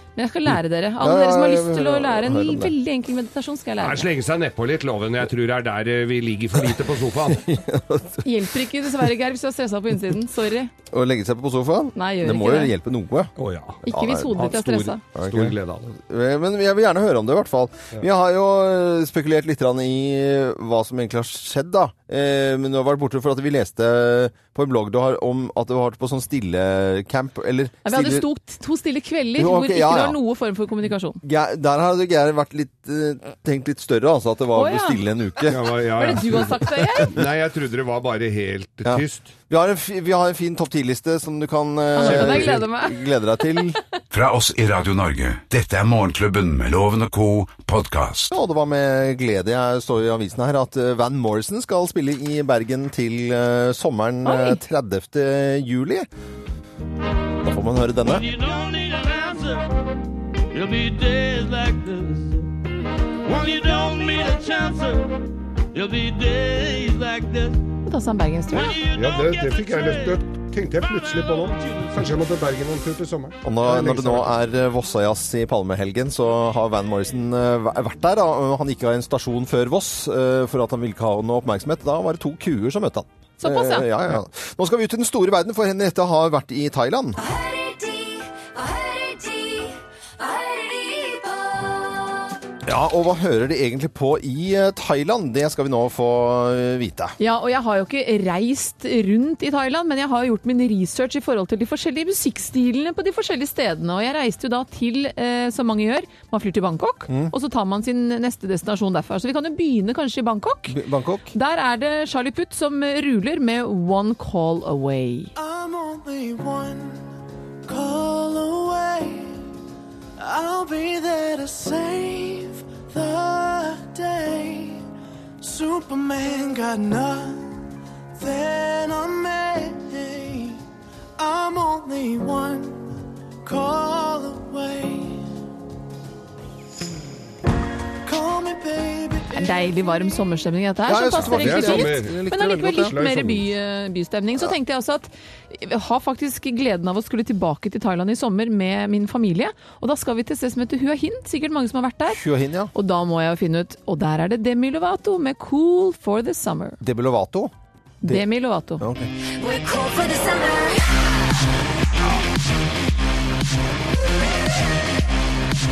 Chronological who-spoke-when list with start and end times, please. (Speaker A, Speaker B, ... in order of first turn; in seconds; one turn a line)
Speaker A: 0.1-4.1
Speaker B: 0.5-2.7
Speaker C: 3.8-7.5
Speaker B: 7.3-8.4
Speaker A: 8.2-10.7
Speaker B: 10.9-13.3
Speaker A: 11.9-12.7
Speaker C: 13.4-15.9
Speaker A: 13.8-15.0
Speaker B: 13.8-14.5
Speaker B: 15.1-28.2
Speaker A: 27.8-31.2
Speaker B: 29.4-30.2
Speaker B: 31.2-36.5
Speaker A: 34.5-35.0
Speaker C: 35.5-39.3
Speaker A: 36.0-37.1
Speaker B: 38.8-43.8
Speaker A: 41.9-43.0
Speaker C: 42.0-42.5
Speaker D: 44.1-48.3
Speaker B: 48.3-56.1
Speaker A: 54.2-54.6
Speaker B: 57.4-58.3
Speaker E: 60.5-61.2
Speaker E: 61.7-62.3
Speaker E: 63.8-64.5
Speaker E: 67.0-67.5
Speaker A: 67.8-68.8
Speaker C: 68.8-74.4
Speaker B: 73.4-87.2
Speaker A: 83.4-83.9
Speaker F: 87.2-92.3
Speaker B: 92.6-97.2
Speaker A: 97.2-110.8
Speaker B: 110.7-111.3
Speaker A: 111.3-115.3
Speaker G: 115.3-117.1
Speaker G: 117.7-119.5
Speaker G: 120.2-124.8
Speaker G: 125.4-127.6
Speaker G: 128.1-130.6
Speaker G: 131.2-135.3
Speaker G: 138.0-139.7
Speaker A: 139.3-152.2
Speaker B: 140.9-142.9
Speaker C: 141.2-143.5
Speaker B: 152.1-152.7
Speaker A: 152.7-156.8
Speaker B: 156.8-157.5
Speaker A: 158.0-158.8
Speaker B: 158.8-159.1
Speaker F: 159.2-161.2